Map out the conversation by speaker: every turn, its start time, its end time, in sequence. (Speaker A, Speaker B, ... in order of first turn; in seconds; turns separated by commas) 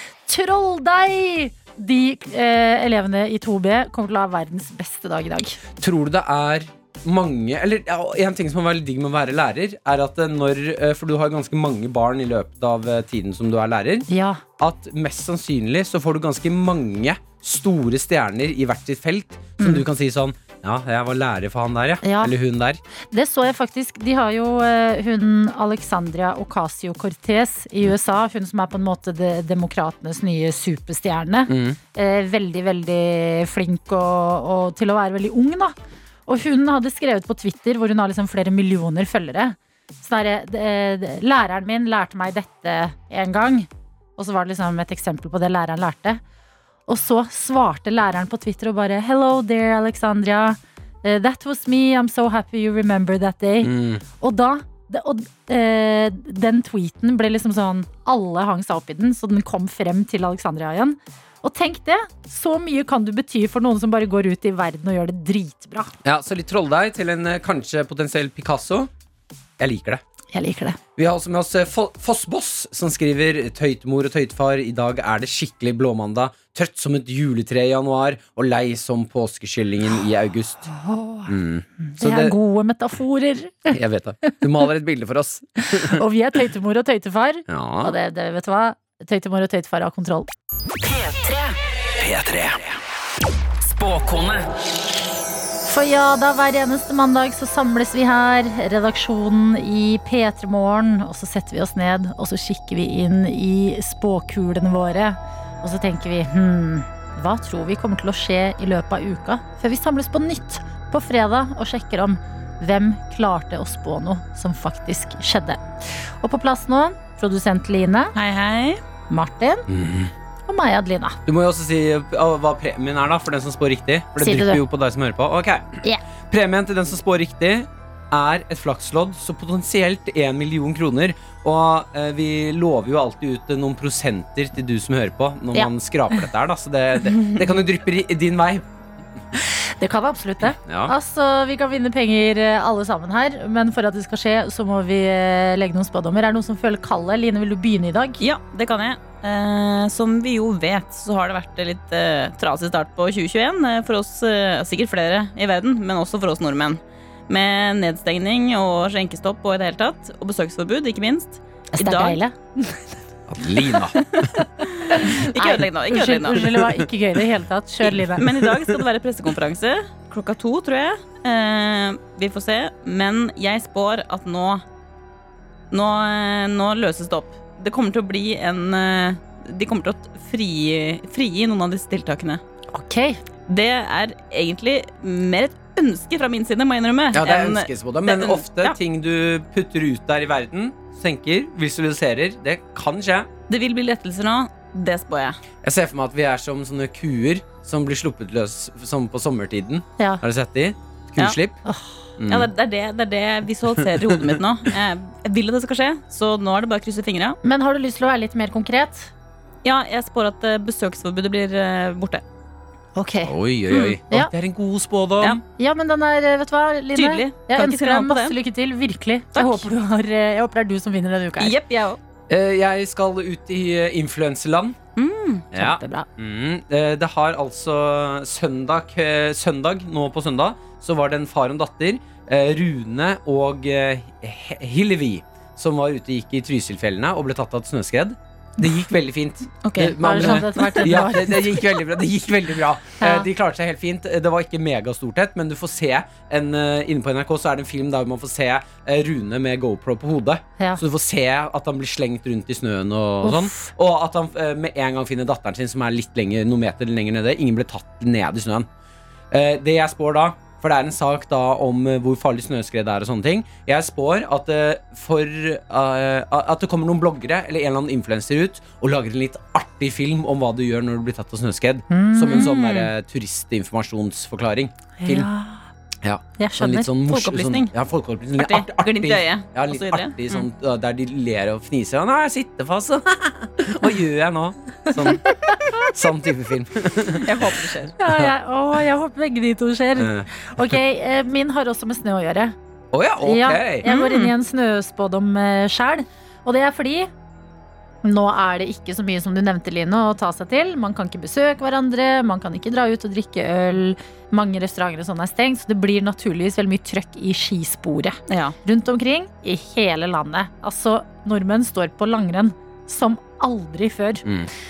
Speaker A: 0.3-5.6, Speaker B: 5.8-14.1, Speaker A: 14.1-14.4, Speaker B: 14.6-22.8, Speaker A: 19.6-19.8, Speaker A: 22.0-22.3, Speaker A: 23.1-35.8, Speaker B: 31.5-31.8, Speaker A: 36.3-46.2, Speaker A: 46.9-66.0, Speaker B: 53.6-54.0, Speaker B: 66.0-68.9, Speaker B: 69.6-70.0, Speaker A: 70.3-70.8, Speaker B: 71.0-80.7, Speaker A: 80.7-83.8, Speaker B: 81.3-82.3, Speaker B: 83.7-86.0, Speaker A: 85.7-90.3, Speaker B: 87.5-87.9, Speaker C: 90.8-92.7, Speaker C: 93.6-94.5, Speaker A: 95.7-118.1, Speaker D: 118.2-118.8, Speaker A: 119.1-119.7, Speaker B: 119.7-120.1, Speaker A: 120.5-121.2, Speaker B: 121.3-138.7, Speaker A: 124.2-124.6, Speaker A: 139.8-148.2, Speaker B: 140.6-140.9, Speaker D: 148.2-162.2, Speaker A: 161.8-162.4, Speaker B: 163.3-164.3, Speaker D: 164.2-166.6, Speaker A: 164.9-168.3, Speaker D: 168.2-174.6, Speaker B: 168.3-168.8, Speaker D: 175.7-182.4, Speaker A: 182.7-183.2, Speaker D: 183.5-188.8, Speaker B: 187.1-193.3, Speaker D: 193.5-195.4, Speaker B: 195.6-201.6, Speaker A: 201.7-202.0, Speaker B: 202.2-202.5, Speaker D: 202.3-207.4, Speaker B: 203.8-204.2, Speaker A: 207.4-209.1, Speaker D: 209.6-212.2, Speaker A: 213.0-213.3, Speaker B: 213.2-215.4, Speaker A: 215.6-221.6, Speaker D: 216.9-218.4, Speaker D: 219.3-219.7, Speaker D: 221.4-222.0, Speaker B: 222.3-224.8, Speaker D: 225.0-225.5, Speaker B: 225.5-258.7, Speaker A: 225.6-226.1, Speaker D: 239.6-240.8, Speaker A: 240.0-241.7, Speaker A: 243.0-243.3, Speaker A: 253.2-253.7, Speaker B: 259.3-275.3, Speaker A: 271.9-272.5, Speaker D: 272.3-272.9, Speaker A: 275.0-275.7, Speaker B: 276.0-287.5, Speaker A: 276.4-276.9, Speaker D: 277.1-277.7, Speaker D: 278.4-280.4, Speaker D: 287.2-287.9, Speaker A: 288.0-292.6, Speaker B: 288.1-288.3, Speaker B: 290.0-290.8, Speaker B: 292.9-293.9, Speaker A: 293.2-297.1, Speaker D: 293.9-294.3, Speaker A: 298.0-314.2, Speaker D: 308.3-308.6, Speaker B: 314.2-314.5